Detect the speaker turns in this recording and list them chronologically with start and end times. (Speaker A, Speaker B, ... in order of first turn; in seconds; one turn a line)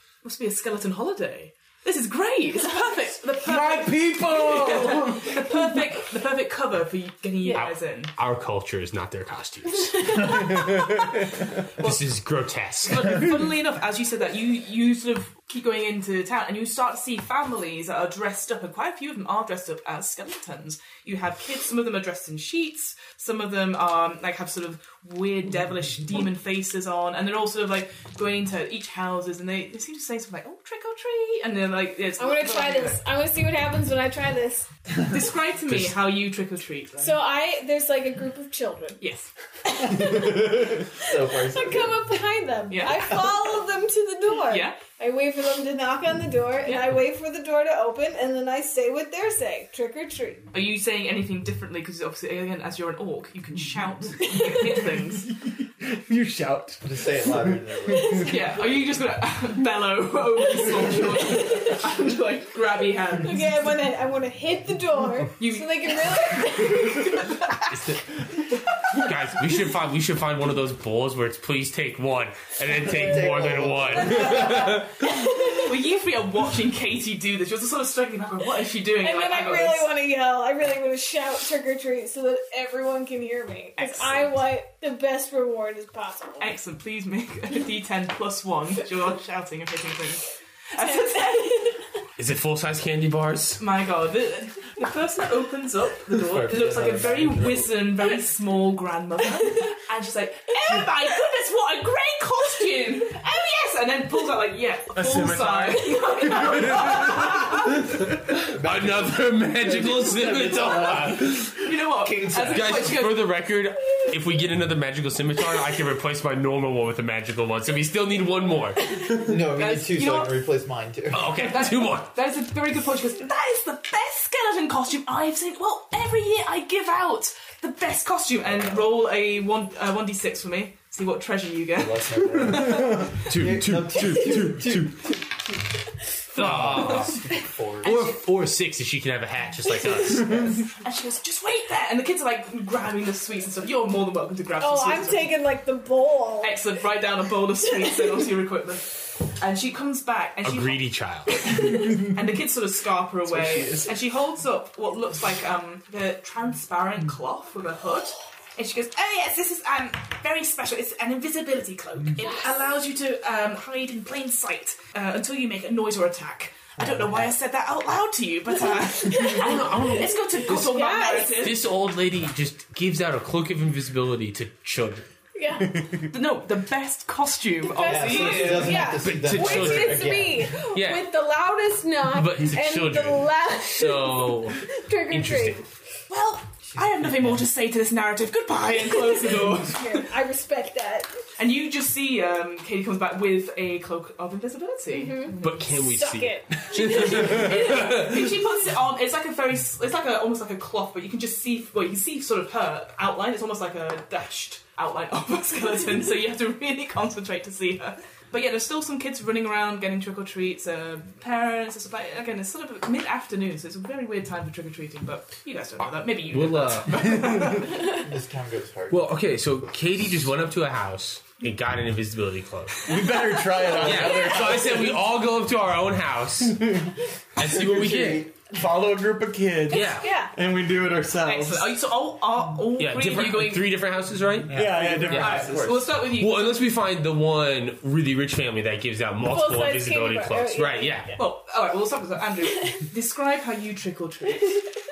Speaker A: 0.2-8.1
Speaker B: 3.4-5.7
Speaker C: 7.5-13.3
Speaker A: 12.9-33.0
Speaker D: 32.2-34.7
Speaker A: 35.1-37.2
Speaker D: 37.0-39.0
Speaker A: 39.0-39.3
Speaker D: 39.6-50.4
Speaker E: 40.2-42.0
Speaker A: 42.7-43.5
Speaker A: 44.5-44.8
Speaker A: 50.5-55.3
Speaker D: 54.2-54.7
Speaker B: 55.8-58.3
Speaker E: 56.8-58.3
Speaker D: 57.9-58.4
Speaker A: 58.2-63.5
Speaker D: 61.2-61.8
Speaker D: 63.2-67.3
Speaker A: 65.4-67.5
Speaker C: 67.7-68.0
Speaker C: 68.9-75.0
Speaker E: 72.7-74.8
Speaker D: 74.1-75.9
Speaker A: 75.6-79.9
Speaker D: 79.0-86.5
Speaker A: 83.8-84.2
Speaker A: 86.4-91.7
Speaker D: 90.8-91.8
Speaker C: 92.2-93.6
Speaker A: 93.6-107.8
Speaker E: 96.1-97.8
Speaker B: 104.9-106.9
Speaker C: 105.0-105.5
Speaker C: 106.4-111.5
Speaker E: 108.4-113.0
Speaker A: 111.6-113.3
Speaker C: 112.5-119.2
Speaker E: 119.1-121.3
Speaker A: 119.3-120.3
Speaker C: 121.1-122.1
Speaker A: 121.2-133.0
Speaker E: 128.5-128.9
Speaker E: 131.7-135.3
Speaker B: 132.6-133.0
Speaker C: 133.2-135.0
Speaker C: 136.3-137.3
Speaker E: 136.3-138.0
Speaker C: 137.8-140.6
Speaker A: 137.8-138.1
Speaker E: 140.2-140.6
Speaker A: 140.8-145.4
Speaker D: 144.6-146.6
Speaker A: 146.4-171.6
Speaker C: 150.4-151.5
Speaker B: 153.3-153.9
Speaker E: 166.8-167.3
Speaker D: 169.1-169.4
Speaker C: 169.2-170.7
Speaker D: 170.5-171.3
Speaker C: 171.3-175.1
Speaker D: 175.3-175.8
Speaker A: 176.1-178.9
Speaker D: 177.6-185.7
Speaker E: 177.8-180.5
Speaker C: 178.5-181.1
Speaker C: 182.1-185.6
Speaker A: 186.1-190.1
Speaker E: 186.7-187.2
Speaker D: 188.9-191.1
Speaker A: 191.4-195.7
Speaker D: 194.9-198.0
Speaker C: 195.4-198.3
Speaker A: 196.7-217.8
Speaker C: 216.2-217.6
Speaker E: 217.8-219.2
Speaker C: 218.9-223.0
Speaker B: 222.8-224.9
Speaker D: 223.6-224.7
Speaker C: 223.7-226.8
Speaker B: 226.6-226.9
Speaker C: 227.4-228.3
Speaker E: 227.6-228.3
Speaker B: 228.4-231.7
Speaker C: 229.7-230.1
Speaker D: 229.7-230.3
Speaker A: 231.2-233.7
Speaker C: 232.8-235.5
Speaker E: 234.5-236.0
Speaker B: 234.5-235.6
Speaker A: 235.1-236.7
Speaker C: 236.0-241.2
Speaker D: 239.2-241.2
Speaker A: 241.2-244.6